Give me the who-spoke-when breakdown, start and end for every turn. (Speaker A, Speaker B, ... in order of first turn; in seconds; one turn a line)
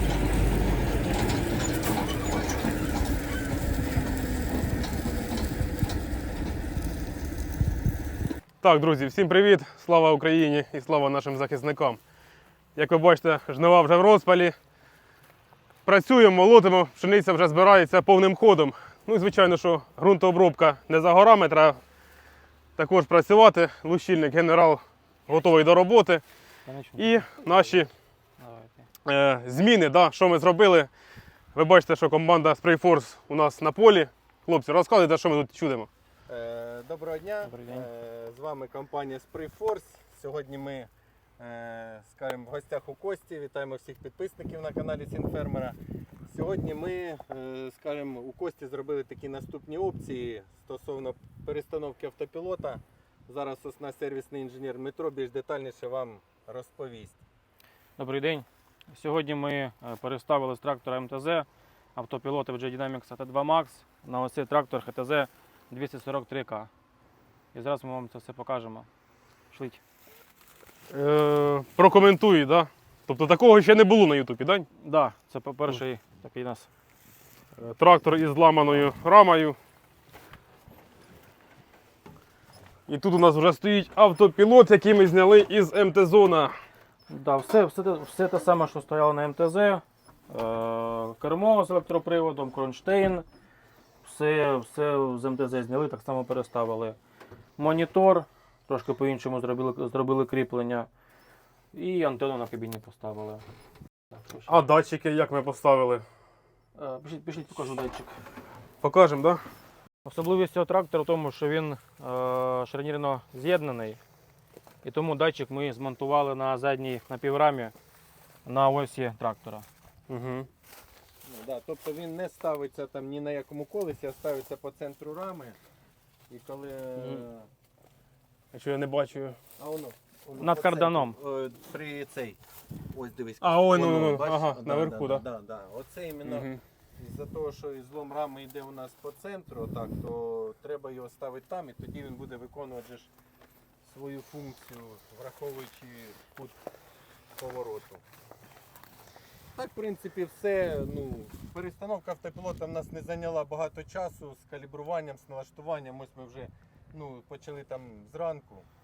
Speaker A: 8.6-12.0
Speaker A: 12.8-14.6
Speaker A: 15.9-21.8
Speaker A: 22.8-26.2
Speaker B: 26.7-27.3
Speaker A: 27.0-27.9
Speaker B: 28.4-28.9
Speaker A: 29.1-30.9
Speaker A: 31.6-35.9
Speaker C: 36.3-45.8
Speaker B: 37.5-37.9
Speaker C: 46.3-57.2
Speaker B: 58.0-66.7
Speaker B: 67.5-68.9
Speaker B: 69.5-69.8
Speaker A: 70.9-74.7
Speaker B: 74.8-76.7
Speaker A: 77.6-79.6
Speaker A: 82.9-86.5
Speaker B: 87.1-93.2
Speaker B: 94.0-97.0
Speaker B: 97.6-100.9
Speaker B: 101.7-103.4
Speaker B: 104.2-104.5
Speaker A: 104.5-106.0
Speaker B: 106.8-108.2
Speaker A: 108.8-109.4
Speaker B: 110.0-114.0
Speaker B: 114.8-117.7
Speaker B: 118.5-119.7
Speaker A: 120.1-120.5
Speaker C: 121.2-125.6
Speaker C: 126.3-127.5
Speaker A: 127.0-127.2
Speaker A: 128.5-129.4
Speaker C: 129.6-132.4
Speaker B: 130.4-131.2
Speaker C: 132.9-143.1
Speaker A: 133.4-135.2
Speaker C: 143.8-146.6
Speaker C: 147.4-148.0
Speaker C: 149.6-158.7